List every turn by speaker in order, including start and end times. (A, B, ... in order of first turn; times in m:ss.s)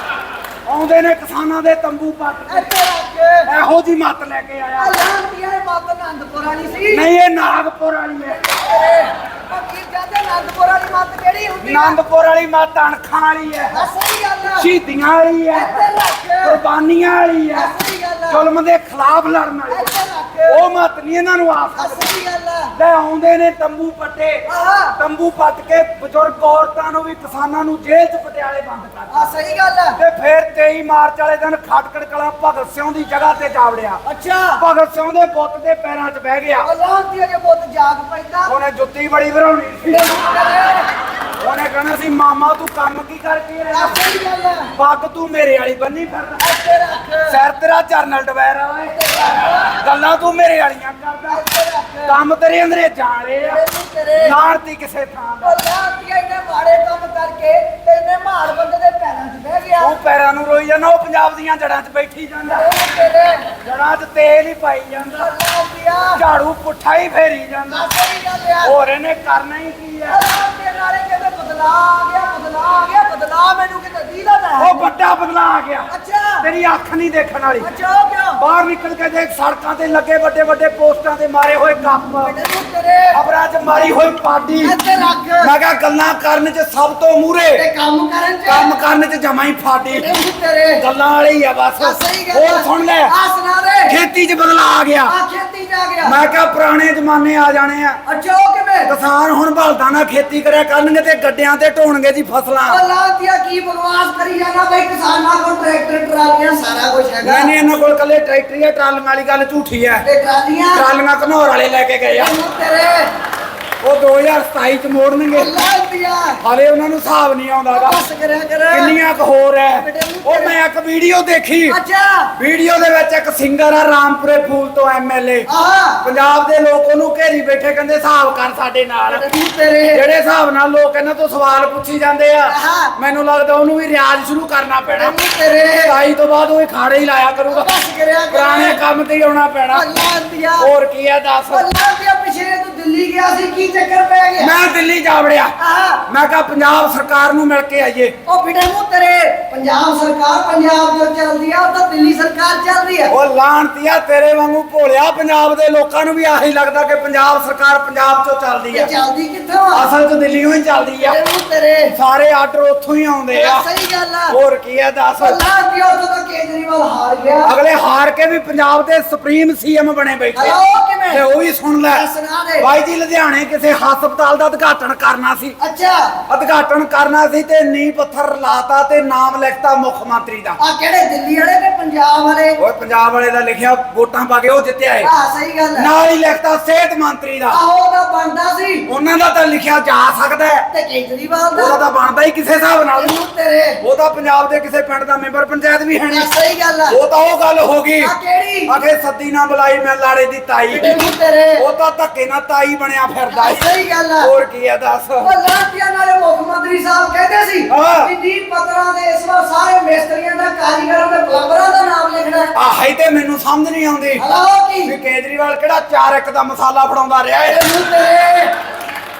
0:00.7-0:02.7 A
0:02.5-0:03.5 B
0:03.4-0:05.0 A
0:04.8-0:07.0 B
0:06.9-0:08.4 A
0:08.3-0:12.0 B
0:11.6-0:13.9 A
0:13.7-0:14.7 B
0:14.6-0:15.9 A
0:15.5-0:16.6 B
0:16.4-0:17.7 A
0:17.5-0:18.4 B
0:18.3-0:19.9 A
0:19.7-0:20.6 B
0:20.5-0:22.0 A
0:21.8-0:22.7 B
0:22.7-0:24.4 A
0:24.5-0:25.0 B
0:25.0-0:29.3 A
0:29.1-0:30.0 B
0:30.0-0:34.0 A
0:34.0-0:34.6 B
0:34.6-0:36.7 A
0:36.6-0:38.5 B
0:38.5-0:40.3 A
0:39.8-0:40.9 B
0:41.4-0:44.0 A
0:43.7-0:44.7 B
0:44.8-0:46.5 A
0:46.4-0:47.4 B
0:47.3-0:49.0 A
0:48.9-0:49.8 B
0:49.7-0:51.4 A
0:51.3-0:52.2 B
0:52.0-0:53.6 A
0:53.4-0:54.4 B
0:54.2-0:55.6 A
0:55.4-0:59.9 B
0:59.8-1:02.7 A
1:02.5-1:03.5 B
1:03.6-1:05.3 A
1:05.2-1:06.2 B
1:06.1-1:07.8 A
1:07.7-1:08.7 B
1:08.6-1:10.2 A
1:10.1-1:14.9 B
1:14.6-1:15.9 A
1:15.9-1:16.5 B
1:16.4-1:17.7 A
1:17.6-1:18.4 B
1:18.4-1:22.4 A
1:22.2-1:23.2 B
1:23.1-1:24.8 A
1:24.6-1:25.5 B
1:25.4-1:27.6 A
1:27.5-1:28.7 B
1:28.5-1:30.2 A
1:29.9-1:30.8 B
1:30.8-1:33.1 A
1:31.8-1:33.9 B
1:33.9-1:35.1 A
1:35.0-1:36.2 B
1:36.0-1:38.0 A
1:38.0-1:38.9 B
1:38.9-1:42.8 A
1:42.6-1:47.5 B
1:47.2-1:50.0 A
1:50.0-1:50.8 B
1:50.7-1:52.3 A
1:52.1-1:53.1 B
1:53.8-1:55.5 A
1:55.3-1:56.4 B
1:56.4-1:58.0 A
1:57.7-1:59.0 B
1:58.7-2:01.8 A
1:59.8-2:00.6 B
2:01.7-2:02.3 B
2:02.4-2:05.5 A
2:05.5-2:06.0 B
2:06.0-2:09.3 A
2:09.1-2:10.0 B
2:09.9-2:15.2 A
2:12.5-2:12.9 B
2:15.0-2:15.9 B
2:15.8-2:17.7 A
2:17.5-2:18.8 B
2:18.3-2:19.9 A
2:19.7-2:20.7 B
2:20.6-2:21.7 A
2:21.5-2:24.5 B
2:24.4-2:25.5 A
2:25.6-2:26.0 B
2:26.1-2:28.2 A
2:28.3-2:33.1 B
2:33.1-2:38.9 A
2:38.7-2:39.8 B
2:39.7-2:41.2 A
2:41.0-2:41.9 B
2:41.9-2:43.6 A
2:43.3-2:44.4 B
2:44.3-2:45.4 A
2:45.2-2:47.5 B
2:47.4-2:50.6 A
2:50.3-2:51.2 B
2:51.1-2:52.0 A
2:51.9-2:52.7 B
2:52.6-2:55.6 A
2:55.6-2:56.2 B
2:56.3-3:00.6 A
3:00.6-3:02.6 B
3:02.6-3:05.1 A
3:05.0-3:05.9 B
3:05.8-3:07.6 A
3:07.5-3:08.9 B
3:08.9-3:10.7 A
3:10.7-3:11.8 B
3:11.5-3:13.2 A
3:12.9-3:13.8 B
3:13.8-3:16.3 A
3:16.1-3:17.0 B
3:16.9-3:18.1 A
3:18.0-3:18.7 B
3:18.7-3:21.0 A
3:20.7-3:21.6 B
3:21.6-3:23.6 A
3:23.3-3:24.3 B
3:24.2-3:25.3 A
3:25.2-3:32.5 B
3:27.7-3:28.1 A
3:32.5-3:34.2 A
3:34.2-3:34.9 B
3:34.8-3:37.6 A
3:37.4-3:38.5 B